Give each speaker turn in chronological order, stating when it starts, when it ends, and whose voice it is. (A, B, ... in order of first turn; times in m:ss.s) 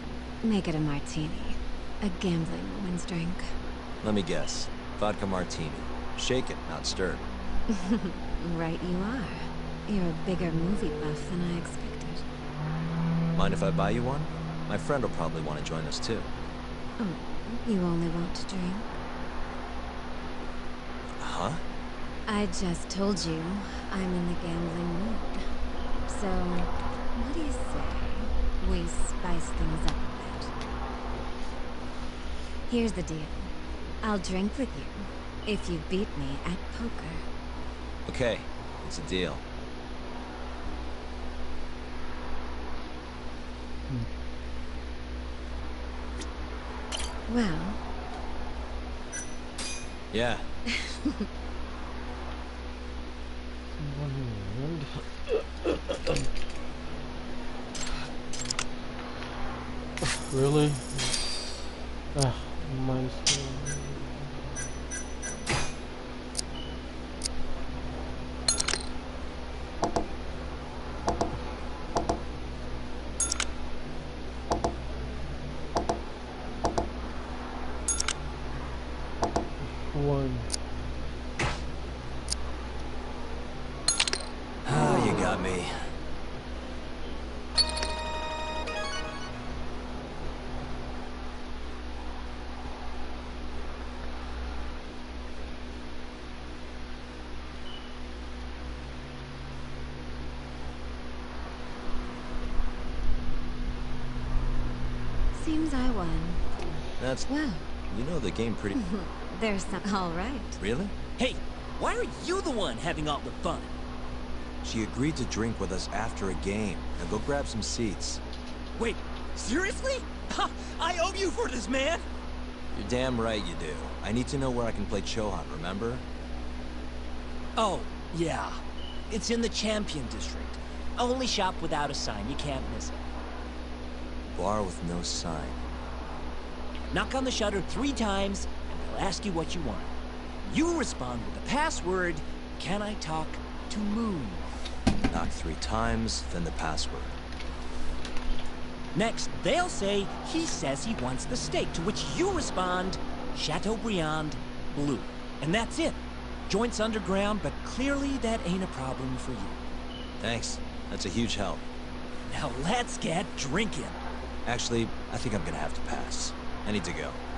0:00.4-0:03.6 A
0:04.0-0:07.2 B
0:07.7-0:12.3 A
0:13.4-0:16.3 B
0:17.0-0:18.9 A
0:21.2-0:21.6 B
0:22.3-0:25.4 A
0:26.1-0:30.5 A
0:32.7-0:33.5 A
0:34.0-0:37.2 A
0:38.1-0:39.4 B
0:47.3-0:47.8 A
0:50.1-0:50.4 B
0:53.8-0:55.3 C
1:00.0-1:01.3 C
1:02.2-1:04.2 C
1:19.9-1:20.5 C
1:24.6-1:25.8 B
1:24.8-1:25.2 C
1:45.3-1:46.5 A
1:47.0-1:47.3 B
1:47.3-1:47.7 A
1:47.9-1:48.8 B
1:48.8-1:50.6 A
1:50.6-1:50.9 B
1:51.2-1:53.7 D
1:54.6-1:58.2 B
1:58.8-2:02.0 D
2:02.7-2:06.0 B
2:07.6-2:13.0 D
2:14.3-2:15.6 B
2:16.9-2:19.9 D
2:20.4-2:24.4 D
2:25.1-2:27.1 B
2:28.9-2:36.0 D
2:36.5-2:39.6 D
2:40.2-2:41.6 B
2:42.3-2:44.0 D
2:44.4-2:47.2 B